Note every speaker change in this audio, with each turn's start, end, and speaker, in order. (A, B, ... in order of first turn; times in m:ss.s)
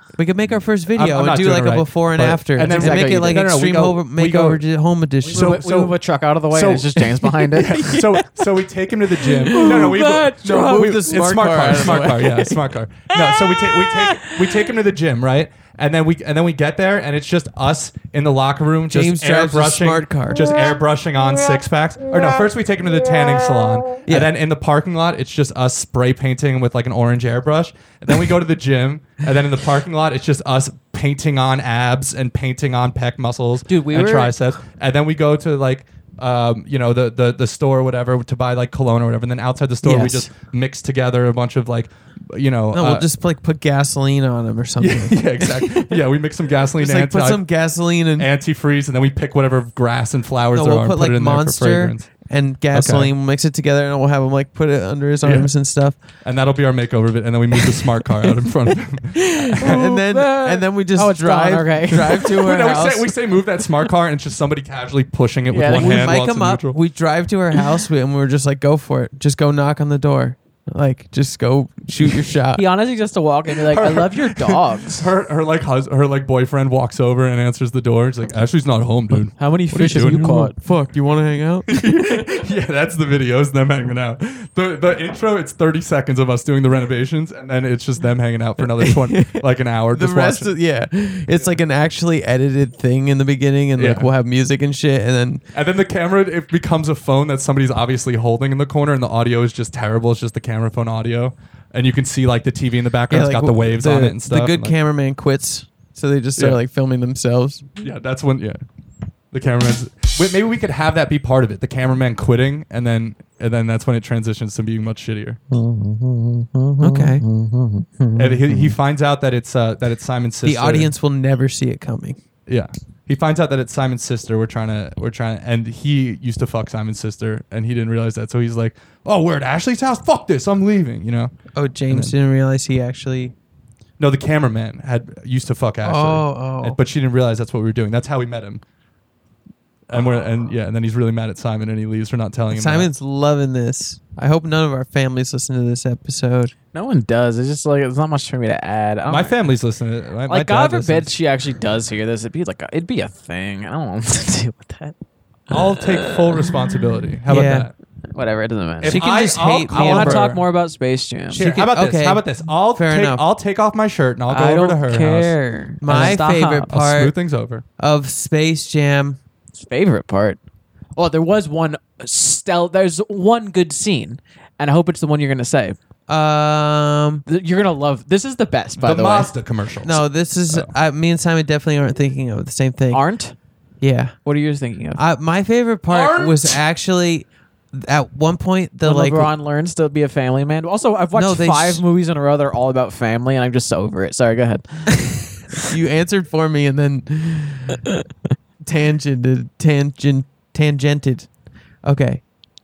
0:00.2-0:05.6 A
0:00.9-0:04.7 B
0:02.7-0:03.6 C
0:05.3-0:08.0 C
0:05.3-0:06.0 B
0:06.5-0:43.1 B
0:07.7-0:08.3 A
0:09.4-0:12.6 A
0:09.5-0:11.0 C
0:13.1-0:14.7 A
0:18.9-0:20.5 A
0:24.0-0:24.3 A
0:33.7-0:34.3 C
0:39.8-0:40.3 A
0:42.7-0:46.0 A
0:44.8-0:47.5 B
0:46.8-0:48.3 A
0:48.2-0:52.1 B
0:50.5-0:56.0 A
0:52.7-0:53.1 B
0:55.2-0:55.5 B
0:56.2-1:00.0 B
0:59.2-1:03.1 A
1:00.0-1:02.5 C
1:02.2-1:06.8 B
1:05.5-1:06.1 C
1:05.7-1:12.6 A
1:12.5-1:15.1 C
1:13.6-1:20.5 B
1:19.4-1:20.5 C
1:19.8-1:22.2 A
1:21.7-1:30.6 B
1:28.8-1:35.4 A
1:31.3-1:31.6 B
1:33.8-1:34.1 B
1:35.5-1:44.8 B
1:43.1-1:47.7 A
1:47.8-1:48.6 B
1:49.3-1:55.4 B
1:55.5-1:58.7 C
1:56.8-1:57.2 A
1:58.2-2:00.9 B
2:00.4-2:02.2 A
2:02.5-2:11.3 B
2:11.6-2:13.3 A
2:11.9-2:12.1 B
2:14.0-2:18.6 B
2:15.8-2:16.8 A
2:19.9-2:22.9 B
2:22.5-2:26.5 A
2:26.7-2:29.4 C
2:29.1-2:31.1 B
2:30.3-2:34.9 C
2:35.5-2:37.7 B
2:35.5-2:36.6 C
2:37.3-2:37.7 A
2:38.2-2:39.2 C
2:38.8-2:40.4 B
2:38.8-2:40.4 A
2:39.7-2:41.6 C
2:41.3-2:43.2 A
2:41.3-2:45.4 B
2:44.3-2:46.7 C
2:45.8-2:47.1 A
2:46.7-2:47.6 B
2:47.8-2:49.2 A
2:49.6-2:50.4 C
2:51.0-2:55.8 C
2:56.1-2:57.2 A
2:57.3-2:59.3 C
2:58.8-3:00.7 B
2:59.8-3:03.0 A
3:02.9-3:03.4 C
3:03.8-3:04.2 A
3:04.2-3:05.0 C
3:05.0-3:09.3 A
3:05.9-3:06.6 B
3:08.8-3:15.4 C
3:11.1-3:11.8 A
3:15.7-3:17.8 A
3:18.6-3:21.3 A
3:21.8-3:22.2 A